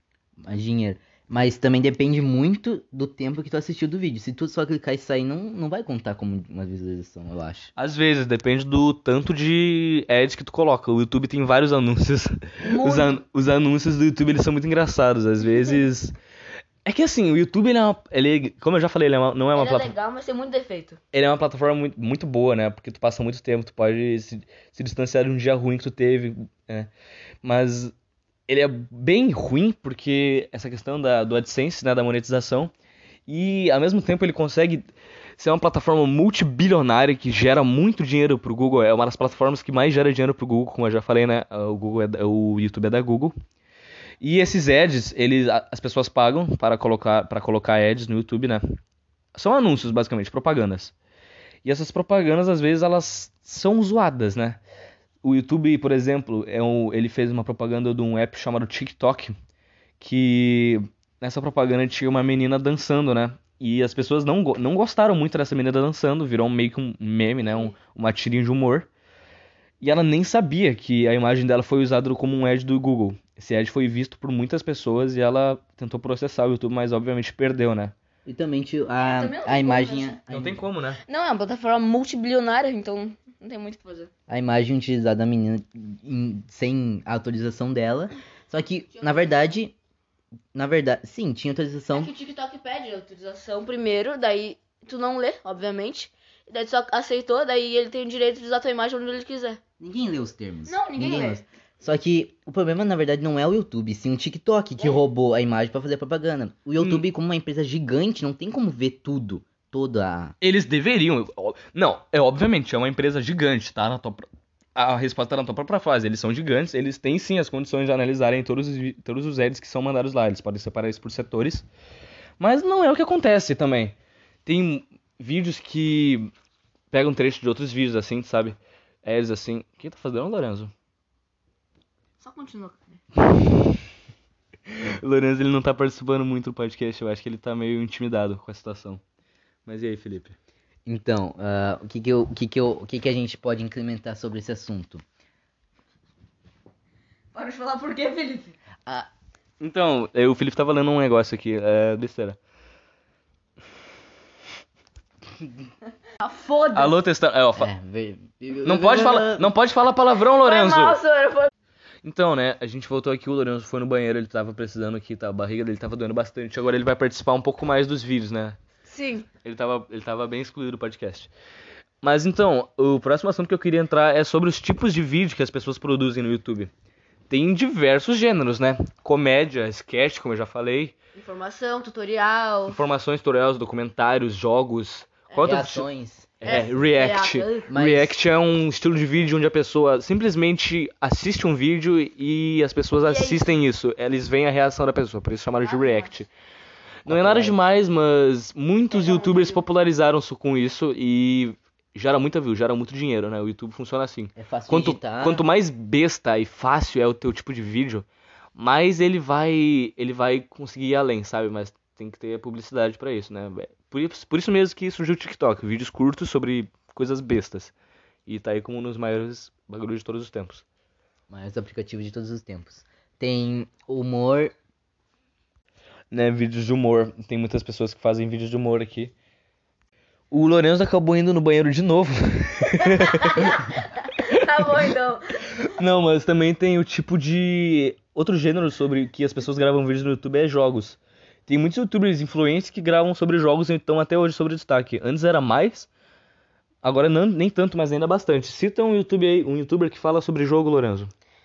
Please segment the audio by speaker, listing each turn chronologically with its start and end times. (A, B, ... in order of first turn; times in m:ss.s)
0:00.4-0:07.7 A
0:07.8-0:16.1 B
0:12.6-0:13.2 C
0:16.8-0:19.9 B
0:19.5-0:21.0 C
0:21.1-0:26.9 B
0:27.4-0:27.9 B
0:28.5-0:32.7 B
0:33.3-0:34.8 B
0:35.4-0:43.3 B
0:44.2-0:48.6 B
0:49.4-0:50.9 B
0:51.6-0:54.6 B
0:55.2-0:59.3 B
1:00.0-1:08.9 B
1:07.4-1:07.7 C
1:09.8-1:17.9 B
1:18.3-1:20.7 A
1:19.0-1:20.2 C
1:20.3-1:21.0 B
1:21.0-1:24.1 C
1:24.3-1:29.8 A
1:30.5-1:32.1 A
1:31.9-1:39.6 C
1:39.8-1:50.4 A
1:40.7-1:41.4 C
1:46.8-1:47.1 B
1:50.4-1:54.2 B
1:54.8-2:01.7 B
2:02.4-2:04.0 B
2:04.5-2:06.3 B
2:06.9-2:10.7 B
2:12.2-2:13.0 C
2:13.3-2:13.8 B
2:14.7-2:19.0 B
2:19.7-2:20.4 B
2:20.9-2:25.0 A
2:27.3-2:28.5 C
2:29.6-2:32.4 B
2:36.2-2:37.0 C
2:36.7-2:37.7 B
2:37.6-2:39.5 A
2:38.6-2:41.0 B
2:40.4-2:41.5 C
2:42.0-2:48.6 B
2:48.9-2:49.3 C
2:49.4-2:51.3 B
2:52.0-2:56.7 B
2:57.3-3:00.9 B
3:01.2-3:02.8 C
3:02.7-3:05.9 B
3:05.3-3:05.6 C
3:05.4-3:06.7 A
3:06.4-3:16.3 B
3:06.4-3:07.7 C
3:07.7-3:08.2 A
3:13.0-3:13.4 C
3:15.6-3:16.1 C
3:17.0-3:28.0 B
3:17.1-3:17.6 A
3:18.9-3:19.6 C
3:24.4-3:25.4 A
3:28.6-3:37.7 B
3:38.3-3:40.6 B
3:41.3-3:44.5 A
3:46.1-3:49.1 B
3:50.3-3:53.6 B
3:53.1-3:55.3 C
3:55.7-4:05.9 B
4:06.8-4:11.1 B